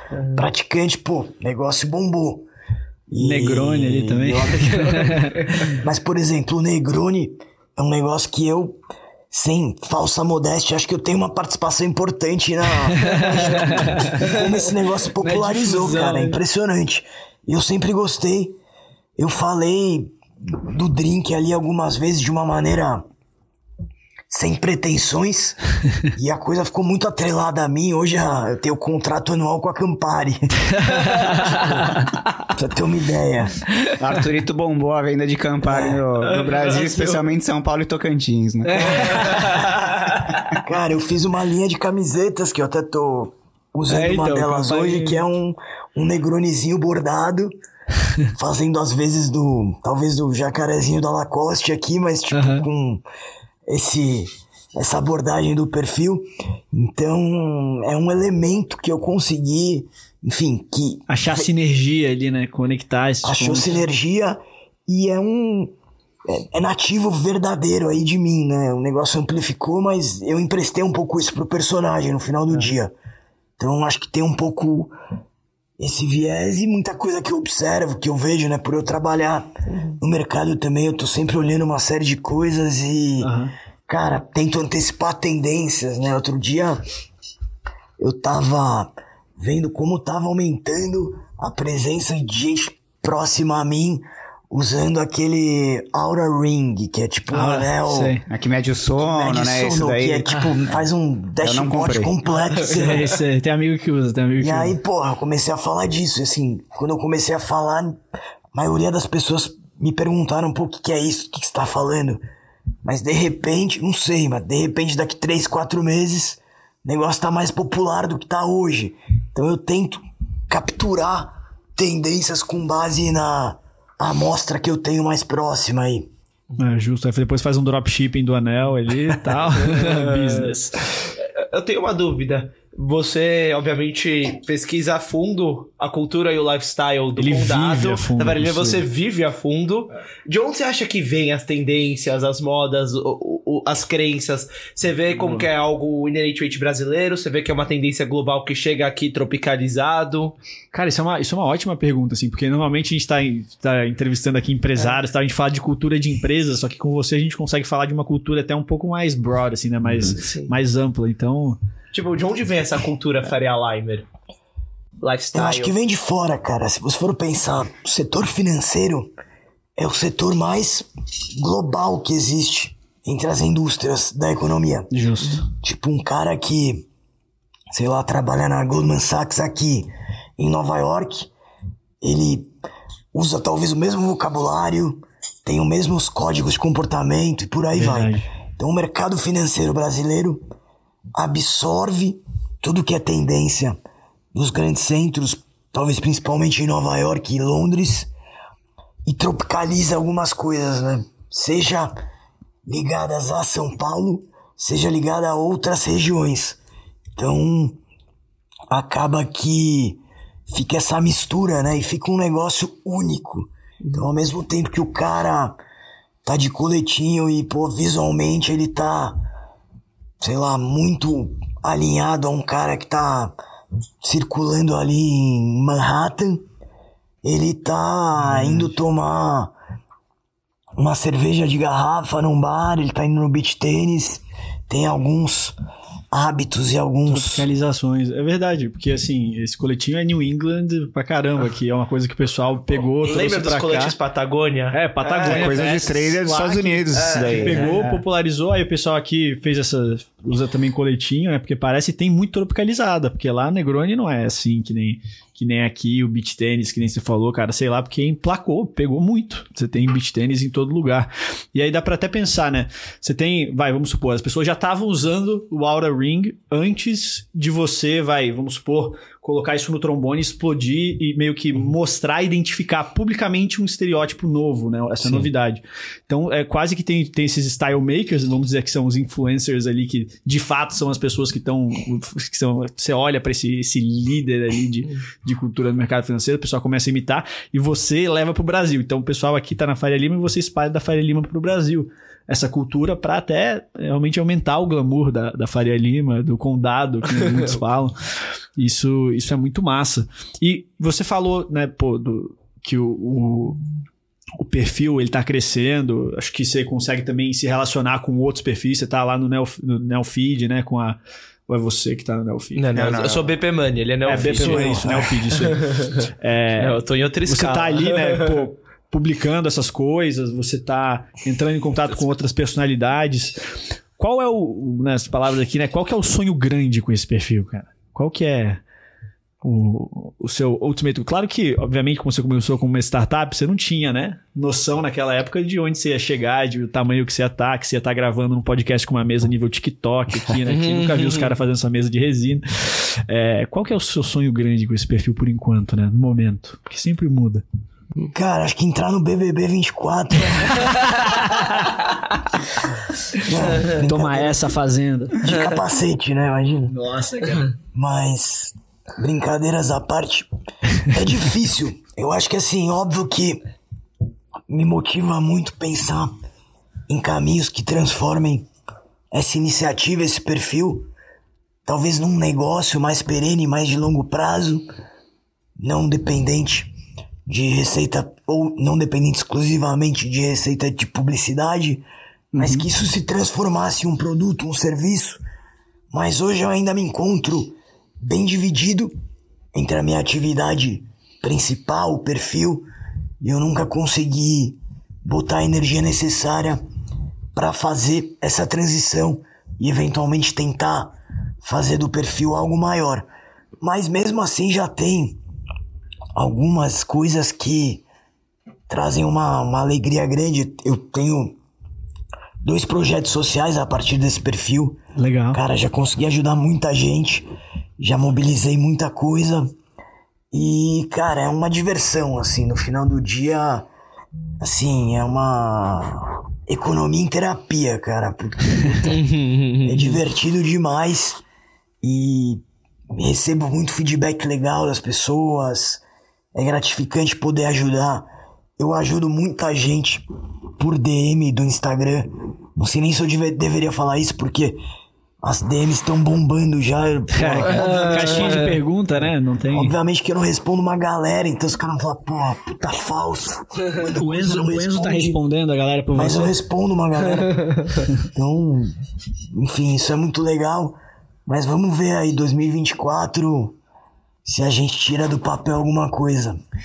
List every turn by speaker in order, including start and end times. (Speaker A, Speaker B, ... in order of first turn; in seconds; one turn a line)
Speaker A: 0.3-2.5
Speaker A: 3.1-8.8
Speaker B: 3.2-5.7
Speaker A: 9.3-18.6
Speaker B: 13.0-14.4
Speaker B: 15.2-16.4
Speaker A: 19.2-23.0
Speaker A: 24.3-25.6
Speaker A: 26.1-33.6
Speaker B: 31.2-32.0
Speaker C: 34.0-39.2
Speaker A: 35.6-36.0
Speaker D: 36.3-37.2
Speaker B: 38.7-39.7
Speaker D: 38.8-39.5
Speaker A: 39.2-39.5
Speaker A: 40.5-47.5
Speaker B: 43.9-45.2
Speaker A: 48.3-53.0
Speaker B: 52.3-52.6
Speaker A: 53.6-61.5
Speaker B: 61.1-63.7
Speaker A: 63.2-65.7
Speaker A: 66.3-72.9
Speaker A: 73.6-74.9
Speaker A: 75.8-83.3
Speaker B: 83.2-83.5
Speaker A: 83.9-86.8
Speaker A: 88.0-98.2
Speaker B: 97.3-98.2
Speaker C: 98.3-100.5
Speaker A: 99.0-103.1
Speaker C: 101.4-102.1
Speaker B: 102.7-104.7
Speaker A: 104.4-108.0
Speaker A: 108.5-112.2
Speaker A: 112.8-126.1
Speaker B: 126.6-130.8
Speaker D: 131.2-150.3
Speaker B: 137.2-138.8
Speaker B: 145.2-145.5
Speaker B: 150.7-161.6
Speaker D: 161.9-164.1
Speaker D: 165.0-165.7
Speaker A: 165.3-169.1
Speaker A: 169.8-174.9
Speaker B: 174.9-175.4
Speaker A: 175.5-176.8
Speaker A: 177.7-181.3
Speaker A: 182.0-182.5
Speaker A: 183.1-190.4
Speaker B: 187.8-188.2
Speaker A: 191.1-193.8
Speaker A: 194.3-198.1
Speaker A: 199.0-201.9
Speaker A: 202.6-206.6
Speaker A: 207.2-207.8
Speaker A: 208.7-215.6
Speaker A: 216.2-219.2
Speaker A: 220.2-223.3
Speaker A: 224.0-226.4
Speaker A: 227.2-229.5
Speaker B: 228.2-228.7
Speaker A: 230.8-235.6
Speaker A: 236.1-237.5
Speaker B: 237.1-243.9
Speaker D: 243.0-245.6
Speaker B: 244.7-297.9
Speaker C: 245.2-247.8
Speaker D: 246.9-248.0
Speaker B: 298.6-303.6
Speaker B: 304.4-312.6
Speaker D: 312.5-316.0
Speaker C: 312.7-313.4
Speaker B: 314.1-328.6
Speaker D: 316.6-318.4
Speaker B: 329.4-347.4
Speaker D: 340.5-341.3
Speaker A: 348.1-350.9
Speaker A: 353.2-354.6
Speaker B: 353.7-355.4
Speaker A: 355.2-356.7
Speaker B: 356.7-357.5
Speaker A: 357.7-360.3
Speaker A: 360.8-363.4
Speaker A: 364.5-366.1
Speaker A: 366.9-368.5
Speaker A: 369.1-370.9
Speaker A: 371.6-374.6
Speaker A: 375.6-376.7
Speaker A: 377.2-381.8
Speaker B: 382.3-382.6
Speaker A: 382.4-385.2
Speaker A: 385.9-388.9
Speaker A: 389.5-392.7
Speaker A: 393.2-396.6
Speaker A: 397.3-403.1
Speaker A: 403.6-405.2
Speaker A: 406.1-407.8
Speaker A: 408.7-411.4
Speaker A: 412.4-414.8
Speaker B: 414.9-415.4
Speaker A: 415.3-417.3
Speaker A: 417.8-419.5
Speaker A: 420.3-423.7
Speaker A: 424.4-429.0
Speaker D: 428.8-430.0
Speaker A: 429.6-431.2
Speaker A: 431.8-432.4
Speaker A: 432.9-435.8
Speaker A: 436.3-438.1
Speaker A: 438.6-440.0
Speaker A: 440.6-444.6
Speaker A: 445.2-448.4
Speaker B: 447.1-449.7
Speaker D: 447.6-448.5
Speaker A: 449.5-455.2
Speaker B: 453.8-456.3
Speaker A: 455.9-458.7
Speaker A: 459.3-463.6
Speaker A: 464.2-466.4